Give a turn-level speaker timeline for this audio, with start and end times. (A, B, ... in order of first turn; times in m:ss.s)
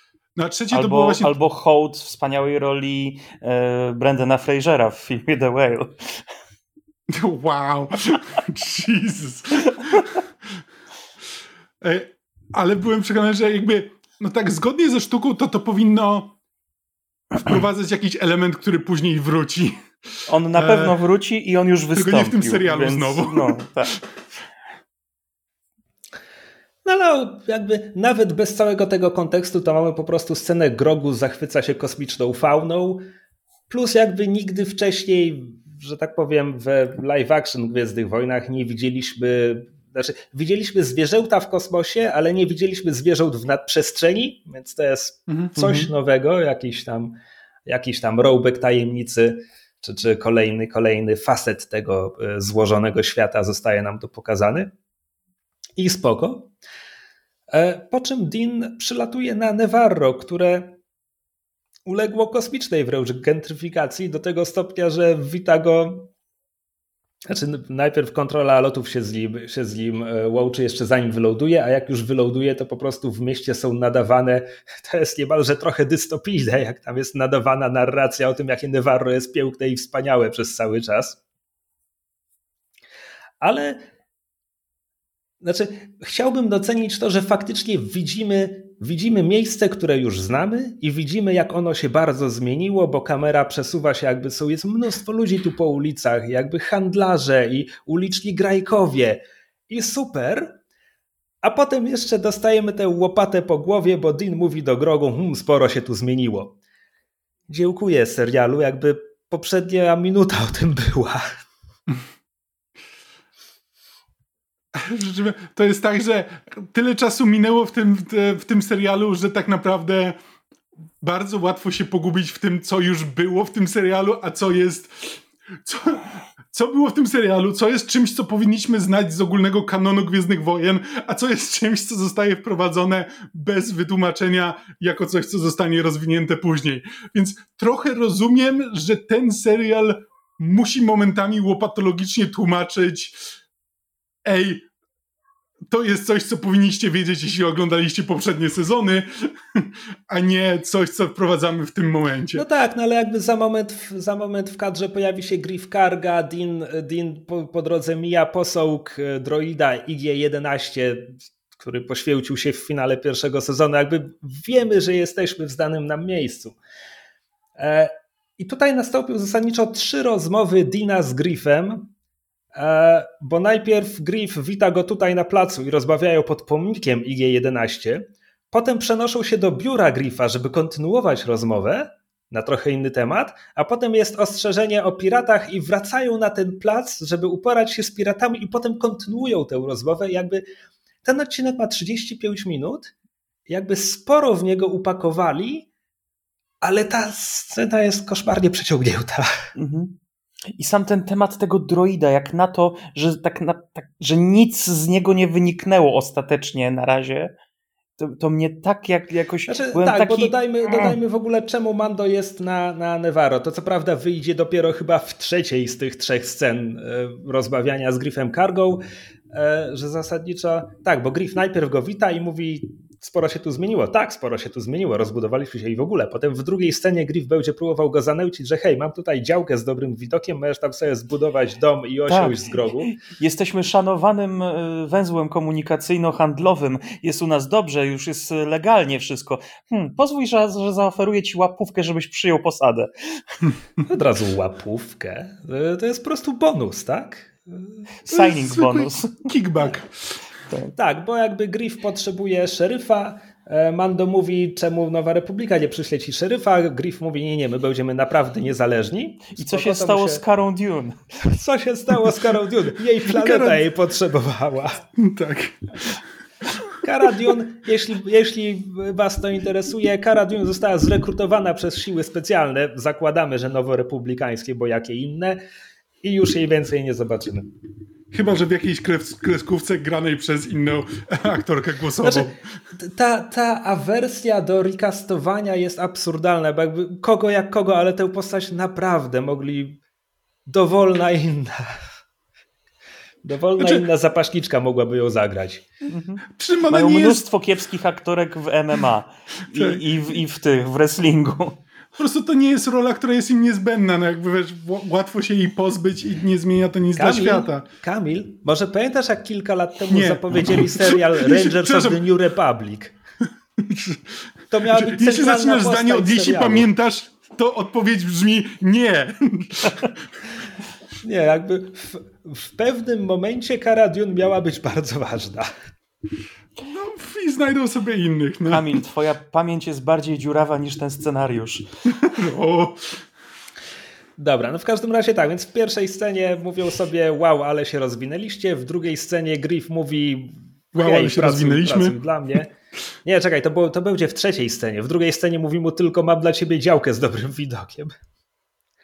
0:00.4-0:01.4 A
0:00.7-0:06.2 B
0:07.1-0:10.2 A
0:11.8-0:16.4 A
0:17.3-0:19.8 A
0:20.3-0:24.0 B
0:20.5-0:21.0 A
0:21.9-0:23.6 A
0:26.8-0:33.0 C
0:33.7-0:54.7 C
0:45.3-0:45.6 A
0:55.8-0:56.5 C
0:57.5-1:00.8 C
1:01.9-1:06.1 C
1:07.3-1:21.2 C
1:23.4-1:23.8 C
1:25.4-1:40.6 C
1:41.4-1:46.6 C
1:47.5-1:51.2 C
1:54.7-2:00.2 A
2:01.0-2:23.2 A
2:24.2-2:24.7 A
2:25.7-2:32.4 A
2:32.3-2:46.6 C
2:47.6-2:51.9 C
2:52.6-3:10.4 C
3:11.0-3:12.9 C
3:13.5-3:15.7 C
3:16.6-3:19.3 C
3:19.6-3:20.0 B
3:20.5-3:27.3 B
3:28.0-3:31.0 B
3:29.5-3:53.0 C
3:52.1-4:03.5 B
4:03.8-4:07.7 C
4:08.0-4:09.3 B
4:08.1-4:10.2 A
4:10.8-4:20.2 C
4:19.4-4:21.0 B
4:21.3-4:24.8 C
4:23.0-4:23.6 A
4:25.0-4:26.7 A
4:26.8-4:35.4 C
4:36.0-4:37.5 C
4:38.1-4:42.4 A
4:42.0-4:49.8 C
4:50.5-4:51.7 C
4:53.2-4:55.6 C
4:53.6-4:53.9 A
4:55.9-5:01.6 B
4:56.3-4:57.2 A
4:59.5-4:59.8 A
5:02.0-5:07.6 A
5:07.0-5:13.0 C
5:09.9-5:12.0 A
5:13.6-5:20.0 A
5:14.5-5:16.7 C
5:21.0-5:25.5 C
5:26.6-5:28.8 A
5:28.5-5:31.7 B
5:31.9-5:33.0 A
5:34.2-5:42.5 C
5:40.7-5:42.0 A
5:43.0-5:47.9 C